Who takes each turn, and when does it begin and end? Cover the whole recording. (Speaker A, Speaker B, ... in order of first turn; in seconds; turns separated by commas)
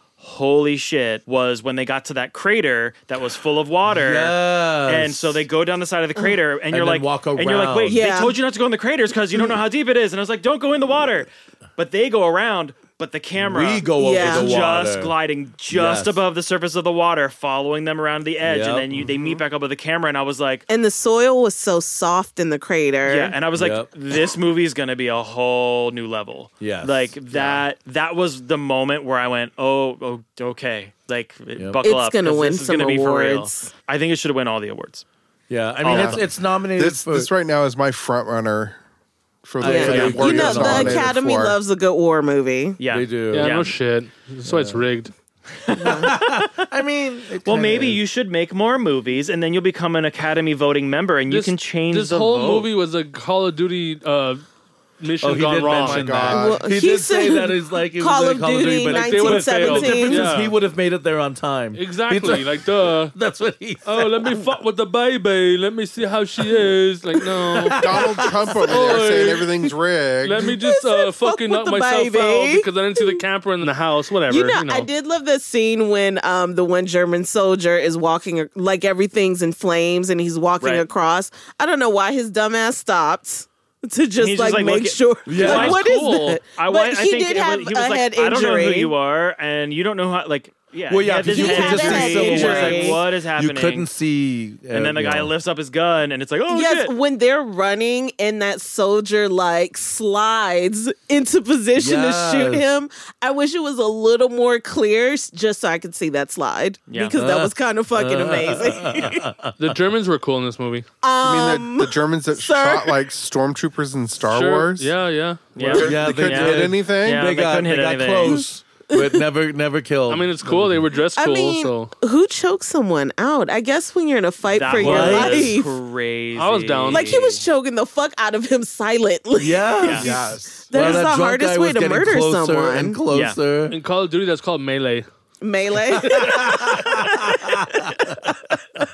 Speaker A: 0.2-20.7, Speaker B: 3.9-5.5, Speaker B: 6.7-8.1, Speaker C: 7.9-8.4, Speaker B: 13.4-15.1, Speaker C: 14.0-14.5, Speaker B: 15.7-16.2, Speaker B: 18.4-19.1, Speaker C: 20.7-23.4, Speaker A: 23.1-35.0, Speaker B: 23.6-23.9, Speaker B: 26.6-27.6, Speaker B: 31.6-31.8, Speaker C: 31.8-33.7, Speaker B: 35.5-37.3, Speaker A: 35.8-36.2, Speaker D: 35.9-36.2, Speaker D: 36.8-38.8, Speaker D: 39.4-41.6, Speaker B: 39.6-41.1, Speaker C: 39.6-42.8, Speaker A: 39.8-40.2, Speaker A: 42.8-43.7, Speaker B: 42.9-43.5, Speaker E: 43.3-45.1, Speaker B: 44.5-44.9, Speaker A: 45.7-46.7, Speaker C: 45.7-46.1, Speaker B: 45.8-48.0, Speaker A: 47.4-52.7, Speaker E: 51.3-54.4, Speaker E: 55.0-56.3, Speaker B: 55.2-64.5, Speaker D: 55.6-56.7, Speaker C: 56.3-60.3, Speaker E: 58.9-60.5, Speaker E: 61.8-63.1, Speaker E: 63.9-68.0, Speaker B: 67.3-69.0, Speaker D: 67.7-70.5, Speaker E: 68.7-69.7, Speaker E: 70.2-74.9, Speaker C: 70.4-73.2, Speaker C: 74.3-88.9, Speaker A: 80.6-80.9, Speaker A: 84.2-85.8, Speaker B: 85.3-85.8, Speaker E: 85.4-86.4, Speaker A: 86.5-93.9, Speaker B: 90.9-95.3, Speaker C: 91.3-93.0, Speaker A: 94.7-96.9, Speaker C: 96.5-109.3, Speaker B: 101.8-102.7, Speaker A: 106.9-107.2, Speaker B: 107.2-109.8, Speaker E: 109.6-110.9, Speaker C: 111.0-113.0, Speaker D: 111.2-114.9, Speaker E: 114.3-115.8, Speaker A: 115.6-118.5, Speaker D: 115.6-117.2, Speaker B: 115.8-120.9, Speaker C: 118.2-119.2, Speaker E: 120.1-121.9, Speaker C: 121.2-125.8, Speaker A: 124.5-127.4, Speaker B: 124.7-125.6, Speaker E: 126.4-127.2, Speaker C: 126.9-133.0, Speaker B: 129.4-130.2, Speaker A: 129.8-130.1, Speaker D: 129.9-131.0, Speaker B: 130.7-133.8, Speaker A: 133.1-133.4, Speaker E: 133.7-135.1, Speaker C: 135.4-138.6, Speaker B: 135.9-138.4